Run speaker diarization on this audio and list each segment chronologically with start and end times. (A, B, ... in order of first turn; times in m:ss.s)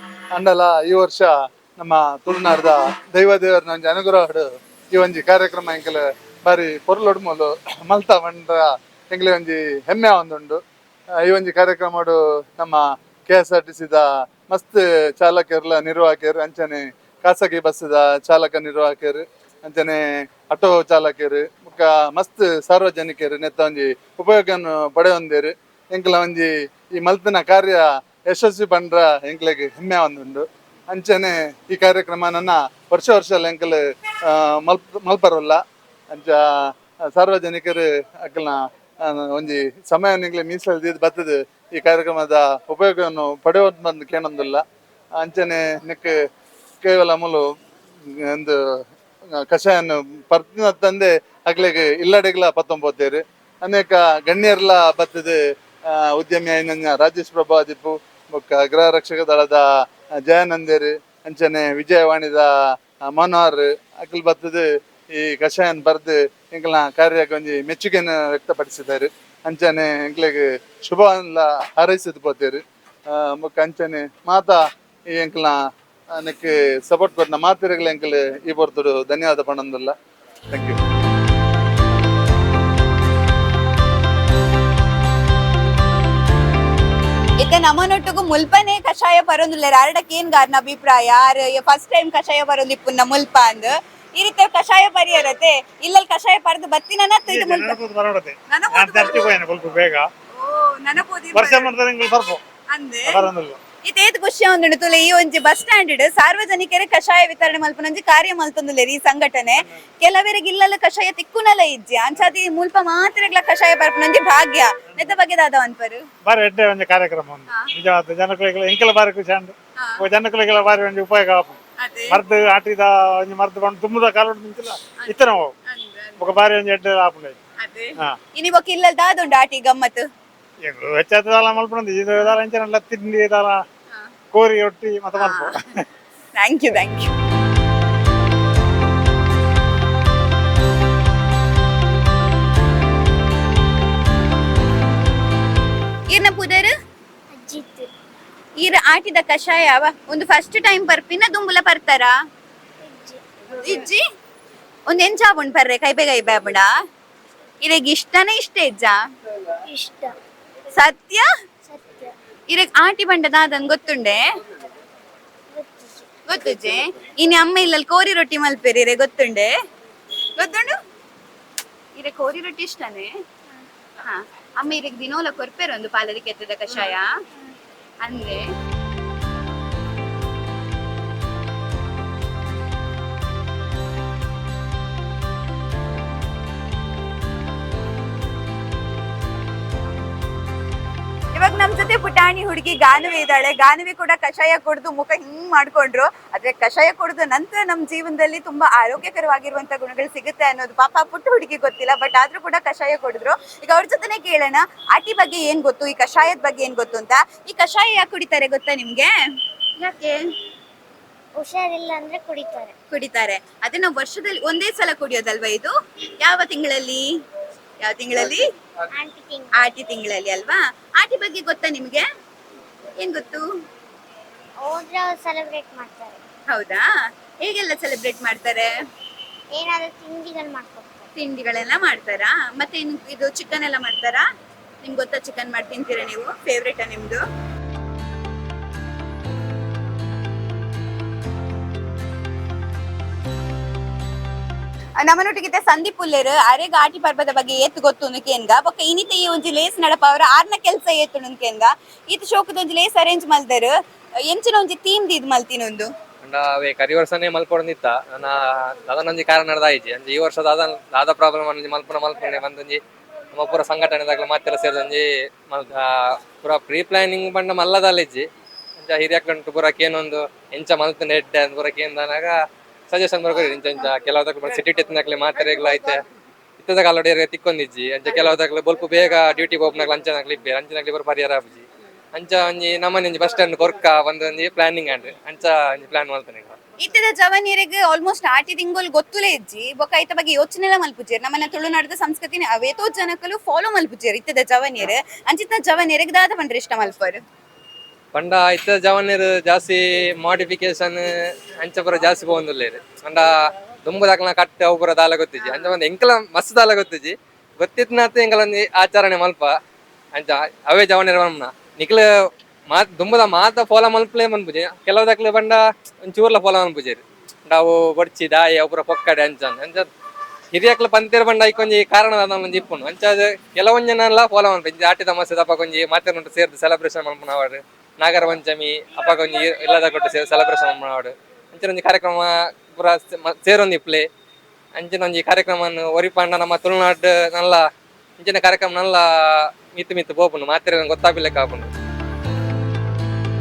0:00.3-0:10.6 A
0:11.2-0:44.6 A
0:45.1-0:46.2 A
0:46.8-0:47.5 A
0:48.0-0:48.6 A
0:49.3-0:59.6 A
1:00.2-1:02.5 A
1:03.0-1:19.9 A
1:20.5-1:20.8 A
1:27.4-1:37.8 B
1:37.2-1:40.1 C
1:38.5-1:39.4 B
1:40.3-1:41.8 B
1:41.3-1:42.4 C
1:42.7-1:43.3 B
1:43.1-1:43.6 C
1:43.8-1:56.0 B
1:56.2-2:01.6 C
1:57.5-1:57.7 B
1:59.8-2:00.1 B
2:01.8-2:02.2 B
2:02.1-2:05.5 C
2:05.0-2:06.4 B
2:06.2-2:07.4 C
2:07.6-2:10.0 B
2:10.6-2:13.6 C
2:12.1-2:12.4 B
2:14.3-2:15.8 C
2:15.1-2:15.8 B
2:16.3-2:17.1 B
2:26.1-2:26.7 B
2:27.3-2:27.9 D
2:28.6-2:32.1 B
2:32.8-2:33.2 D
2:33.6-2:34.0 B
2:34.9-2:36.6 B
2:37.6-2:39.0 B
2:39.7-2:40.1 D
2:40.7-2:41.2 B
2:41.6-2:42.1 D
2:42.5-2:44.2 B
2:45.5-2:46.2 D
2:46.3-2:49.5 B
2:50.4-2:50.7 B
2:52.0-2:53.1 B
2:54.0-2:57.0 B
2:58.0-2:58.4 B
3:11.3-3:29.1 B
3:29.8-3:30.2 B
3:31.4-3:32.7 D
3:32.9-3:37.0 B
3:37.8-3:38.4 B
3:39.0-3:39.7 D
3:39.6-3:42.0 B
3:43.0-3:43.4 B
3:44.6-3:46.2 D
3:46.5-3:46.8 B
3:47.4-3:48.7 B
3:49.5-3:51.0 D
3:51.2-3:54.2 B
3:54.8-3:57.2 B
4:05.0-4:13.7 B
4:14.3-4:15.9 B
4:16.2-4:22.8 E
4:23.3-4:28.2 E
4:28.8-4:32.3 E
4:32.9-4:36.0 E
4:36.6-4:46.6 E
4:46.8-4:57.2 B
4:58.1-5:01.0 E
5:01.6-5:03.3 E
5:03.8-5:09.5 E
5:05.4-5:05.7 B
5:10.1-5:12.0 E
5:12.7-5:19.9 E
5:20.5-5:34.1 E
5:34.7-5:37.6 E
5:38.2-5:39.0 E
5:39.7-5:41.7 E